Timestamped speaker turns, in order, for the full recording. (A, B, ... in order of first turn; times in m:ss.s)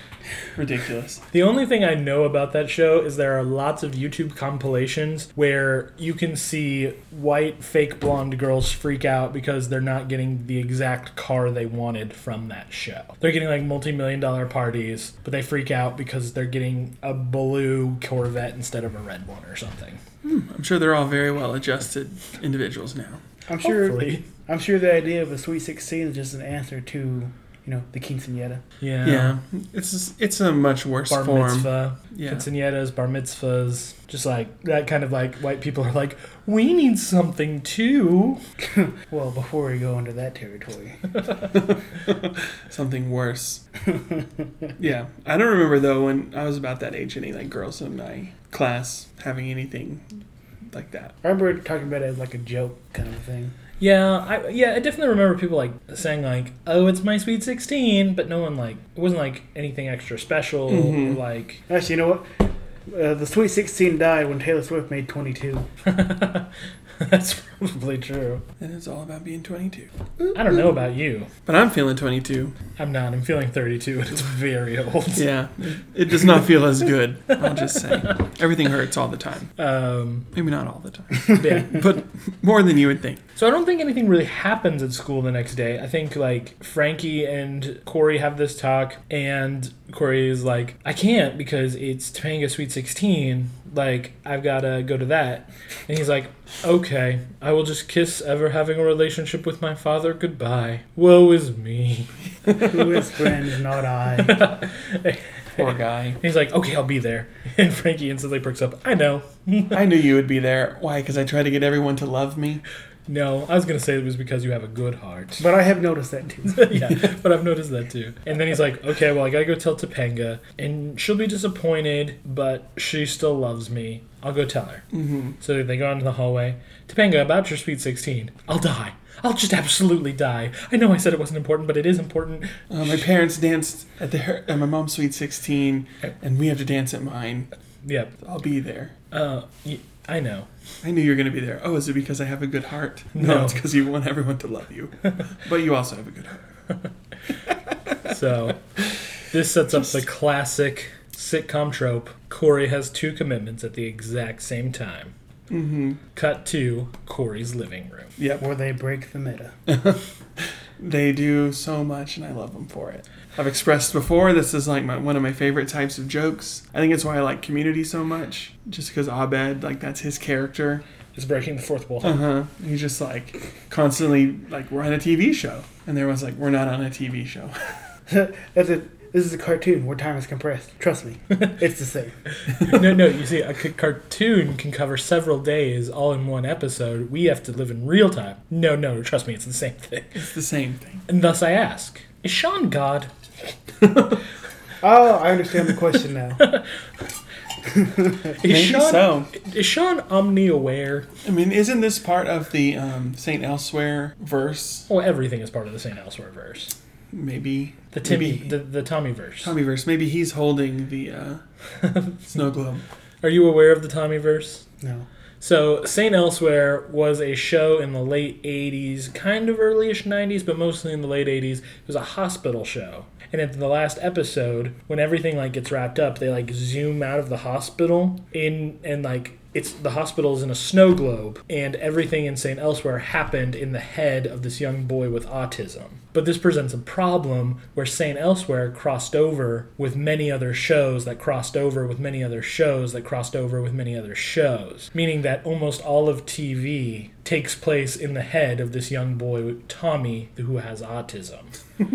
0:00.6-0:01.2 A
0:01.3-0:20.0 B
0:20.2-0:23.2 A
0:23.5-0:28.6 C
0:23.6-0:24.2 B
0:28.8-0:29.4 B
0:29.0-0:32.4 A
0:31.1-0:38.4 B
0:38.6-0:41.1 C
0:41.5-0:43.6 A
0:44.0-0:44.5 C
0:44.8-0:50.0 A
0:50.7-0:51.1 A
0:51.2-0:53.5 C
0:53.8-1:01.6 B
1:00.7-1:01.2 A
1:01.7-1:02.3 C
1:02.9-1:05.7 C
1:05.8-1:08.4 B
1:08.6-1:09.9 A
1:10.3-1:11.3 B
1:11.4-1:12.5 A
1:12.8-1:15.2 B
1:15.1-1:19.5 A
1:19.6-1:20.3 B
1:20.3-1:23.2 A
1:21.3-1:21.8 B
1:23.4-1:42.1 B
1:42.6-1:44.6 C
1:44.2-1:45.7 B
1:45.6-1:46.2 A
1:46.2-1:49.8 B
1:49.7-1:52.6 A
1:53.1-1:55.5 B
1:55.4-1:56.8 C
1:56.5-2:04.8 B
2:04.9-2:05.4 A
2:05.4-2:13.0 B
2:12.7-2:17.5 A
2:17.8-2:18.1 B
2:18.2-2:18.9 A
2:19.1-2:20.5 B
2:20.8-2:26.4 A
2:23.2-2:23.6 B
2:28.0-2:28.6 B
2:29.3-2:35.1 B
2:35.5-2:36.0 A
2:36.1-2:38.1 B
2:38.2-2:38.4 A
2:38.4-2:39.5 C
2:39.7-2:40.0 A
2:40.8-2:50.8 A
2:51.1-2:52.2 B
2:52.0-2:57.5 A
2:58.1-3:02.1 C
3:02.6-3:10.2 B
3:10.1-3:11.0 A
3:11.1-3:13.1 B
3:14.8-3:16.4 C
3:16.4-3:16.7 B
3:17.8-3:18.1 C
3:18.4-3:21.1 B
3:18.4-3:19.3 A
3:21.2-3:24.9 A
3:24.9-3:26.7 B
3:27.1-3:28.5 A
3:27.9-3:29.5 B
3:29.4-3:31.4 A
3:31.8-3:32.3 B
3:32.3-3:32.8 A
3:33.2-3:34.6 B
3:34.8-3:35.1 C
3:35.4-4:11.5 B